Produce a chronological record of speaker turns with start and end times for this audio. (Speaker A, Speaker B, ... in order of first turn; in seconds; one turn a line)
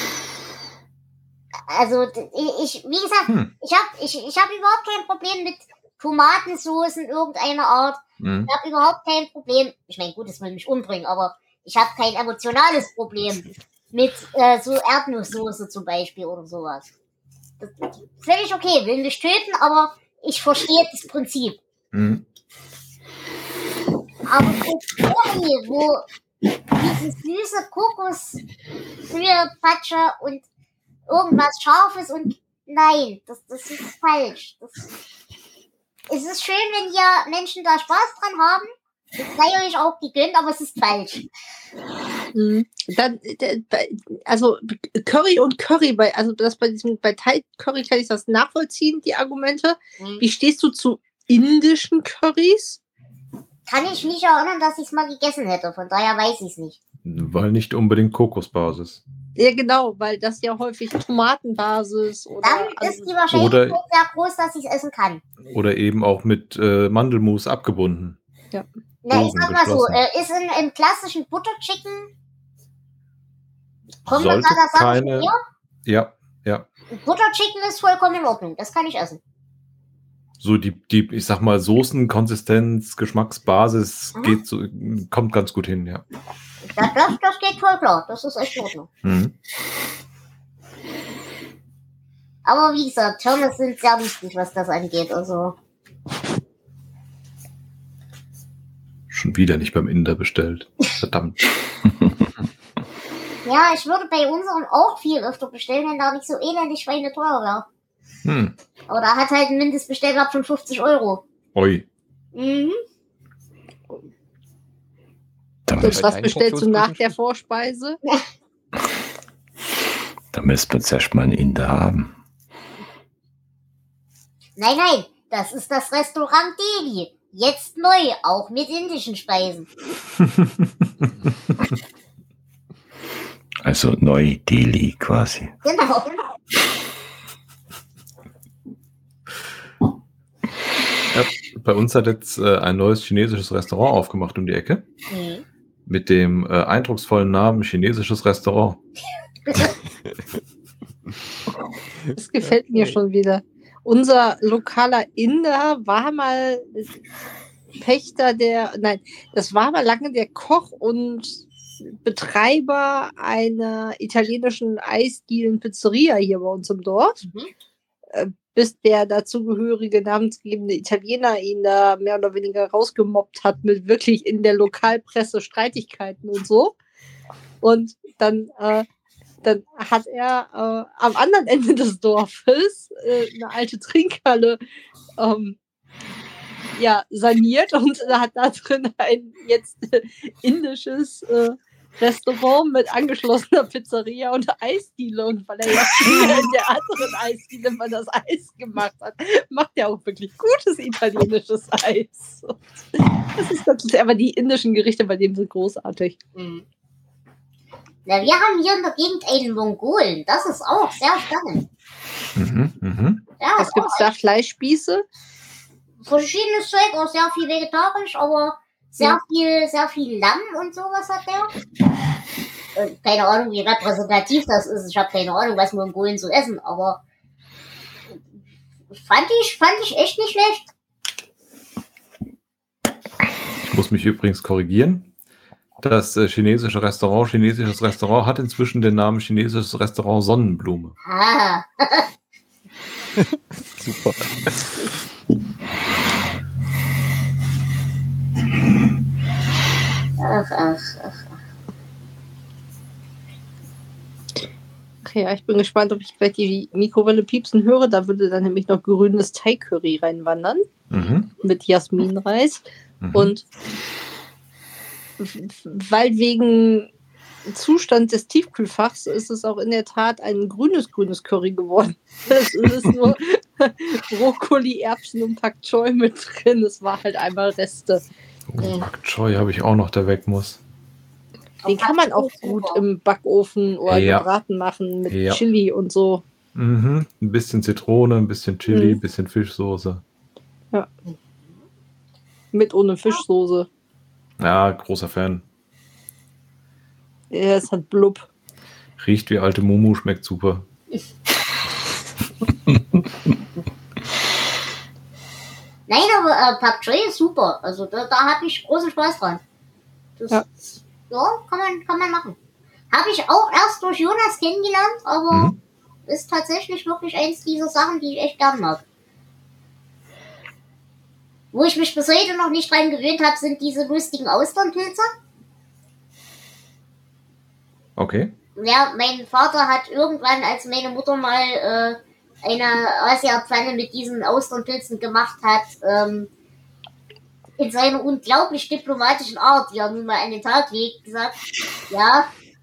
Speaker A: 1.7-16.9
Speaker B: 3.3-3.5
Speaker B: 8.2-8.5
Speaker A: 17.6-21.6
Speaker B: 21.9-22.2
Speaker A: 24.3-26.1
Speaker A: 26.8-28.4
Speaker A: 29.1-30.4
Speaker A: 31.1-34.9
Speaker A: 36.1-41.3
Speaker C: 42.3-52.8
Speaker A: 50.0-50.2
Speaker A: 53.7-56.8
Speaker B: 57.0-59.0
Speaker C: 59.4-63.1
Speaker A: 62.4-65.2
Speaker B: 63.3-63.8
Speaker B: 65.5-68.2
Speaker A: 69.0-72.1
Speaker B: 69.1-70.0
Speaker B: 74.1-75.3
Speaker A: 74.1-75.4
Speaker B: 75.9-76.7
Speaker A: 76.9-79.2
Speaker B: 80.4-86.0
Speaker A: 84.2-84.4
Speaker A: 86.7-88.9
Speaker B: 89.0-89.3
Speaker A: 92.5-95.5
Speaker B: 99.1-101.4
Speaker A: 103.5-107.7
Speaker B: 108.2-108.5
Speaker A: 108.9-111.2
Speaker B: 111.5-111.9
Speaker A: 112.3-112.8
Speaker D: 115.7-116.1
Speaker E: 115.8-117.2
Speaker C: 115.8-118.0
Speaker D: 120.3-122.1
Speaker A: 124.6-129.7
Speaker D: 133.6-135.5
Speaker A: 135.6-136.2
Speaker B: 141.1-144.8
Speaker A: 145.1-145.4
Speaker B: 145.9-148.8
Speaker A: 149.5-149.7
Speaker C: 152.2-156.9
Speaker C: 157.8-167.2
Speaker A: 167.2-167.5
Speaker C: 168.1-176.8
Speaker C: 177.6-178.9
Speaker C: 179.4-184.6
Speaker C: 185.2-185.6
Speaker C: 186.8-206.2
Speaker A: 206.3-206.7
Speaker A: 208.1-211.7
Speaker B: 212.4-213.2
Speaker A: 213.4-214.1
Speaker C: 213.6-215.1
Speaker A: 216.0-221.5
Speaker A: 222.8-227.0
Speaker A: 229.0-230.7
Speaker B: 233.7-235.1
Speaker B: 235.8-241.0
Speaker A: 241.1-242.1
Speaker E: 243.2-244.9
Speaker A: 250.2-251.3
Speaker C: 255.0-260.6
Speaker B: 260.9-261.3
Speaker C: 261.4-263.4
Speaker B: 263.0-263.3
Speaker C: 265.2-266.9
Speaker C: 267.5-278.0
Speaker B: 278.5-280.6
Speaker A: 281.6-282.8
Speaker C: 281.7-286.2
Speaker B: 283.9-284.3
Speaker B: 285.1-285.4
Speaker B: 286.6-290.0
Speaker C: 288.7-289.0
Speaker C: 292.5-293.7
Speaker B: 294.4-295.4
Speaker C: 297.3-298.2
Speaker B: 299.0-300.7
Speaker A: 305.9-309.4
Speaker A: 310.2-310.4
Speaker A: 311.1-312.4
Speaker A: 312.9-315.5
Speaker B: 315.3-315.6
Speaker A: 316.1-318.8
Speaker A: 321.5-325.1
Speaker B: 328.0-328.3
Speaker A: 328.6-336.3
Speaker A: 337.6-341.4
Speaker A: 341.9-342.3